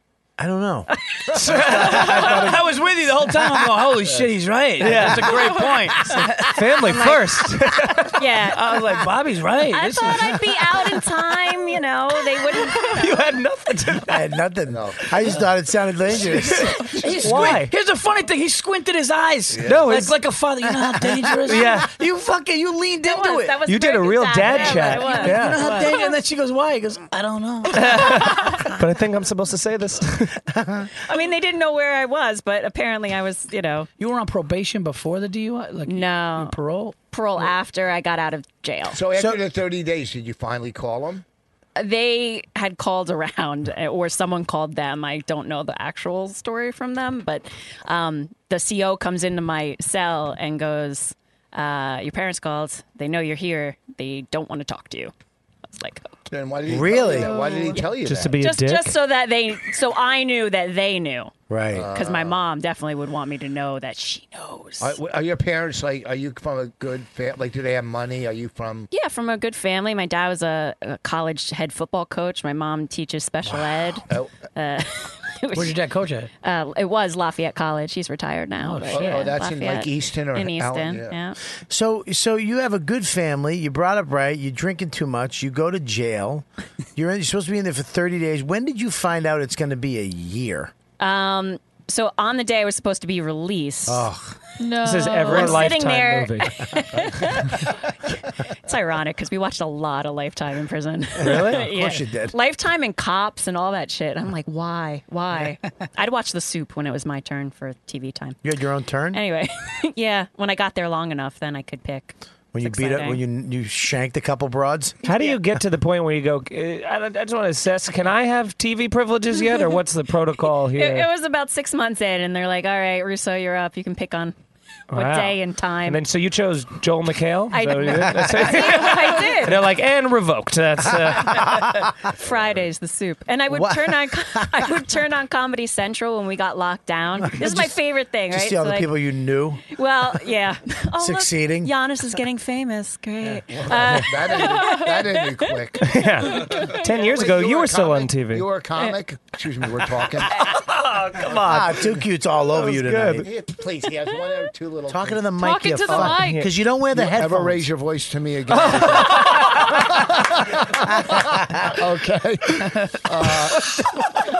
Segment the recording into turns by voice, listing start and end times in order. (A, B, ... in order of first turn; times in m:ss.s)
0:00.4-0:00.9 A
0:00.9-0:02.3 B
0:01.4-0:06.6 C
0:01.4-0:02.5 D
0:01.5-0:02.6 A
0:04.8-0:05.5 D
0:06.4-0:08.1 D
0:06.8-0:07.3 B
0:08.1-0:08.8 B
0:08.5-0:10.4 C
0:09.7-0:13.3 B
0:12.8-0:14.3 D
0:14.1-0:16.8 A
0:14.7-0:15.5 E
0:16.4-0:17.2 E
0:16.8-0:23.6 C
0:17.2-0:17.7 D
0:19.5-0:19.9 E
0:19.7-0:20.2 D
0:21.2-0:21.6 A
0:21.5-0:21.9 D
0:23.0-0:26.2 B
0:23.7-0:25.4 D
0:24.4-0:28.6 C
0:25.2-0:25.7 A
0:27.7-0:30.4 D
0:30.5-0:30.9 A
0:31.0-0:33.9 B
0:34.0-0:37.0 C
0:35.9-0:36.6 B
0:37.1-0:39.0 B
0:38.9-0:41.2 E
0:39.2-0:39.4 A
0:41.8-0:55.1 B
0:55.7-0:56.1 B
0:56.3-0:58.4 E
0:56.7-0:57.3 A
0:57.0-0:57.8 F
0:58.0-0:59.0 D
0:58.4-1:01.3 B
1:01.5-1:01.9 A
1:01.7-1:02.4 E
1:01.9-1:05.0 B
1:04.8-1:08.9 E
1:08.9-1:15.8 B
1:15.5-1:16.3 C
1:16.4-1:21.4 B
1:18.6-1:19.2 C
1:18.9-1:21.1 E
1:21.7-1:30.7 A
1:31.0-1:34.1 B
1:33.9-1:34.4 A
1:34.6-1:35.7 F
1:34.8-1:36.6 D
1:35.3-1:35.5 A
1:35.3-1:48.4 B
1:41.2-1:42.4 A
1:41.2-1:41.6 D
1:48.4-1:49.2 A
1:49.1-1:53.2 B
1:52.5-1:55.0 A
1:55.0-2:01.1 D
1:55.1-1:55.4 B
2:00.7-2:04.4 B
2:04.9-2:11.6 D
2:04.9-2:06.0 B
2:07.5-2:09.6 B
2:08.1-2:08.4 A
2:10.9-2:11.8 A
2:12.1-2:18.9 B
2:13.5-2:14.8 A
2:17.2-2:17.8 A
2:18.3-2:19.6 A
2:19.7-2:25.2 B
2:21.0-2:21.7 A
2:23.5-2:30.4 E
2:25.8-2:28.5 D
2:26.3-2:26.8 B
2:30.4-2:33.3 D
2:31.2-2:33.3 A
2:33.2-2:35.3 E
2:34.9-2:37.7 A
2:35.4-2:36.5 F
2:35.9-2:36.1 E
2:36.9-2:44.0 E
2:38.5-2:39.8 D
2:40.9-2:41.8 A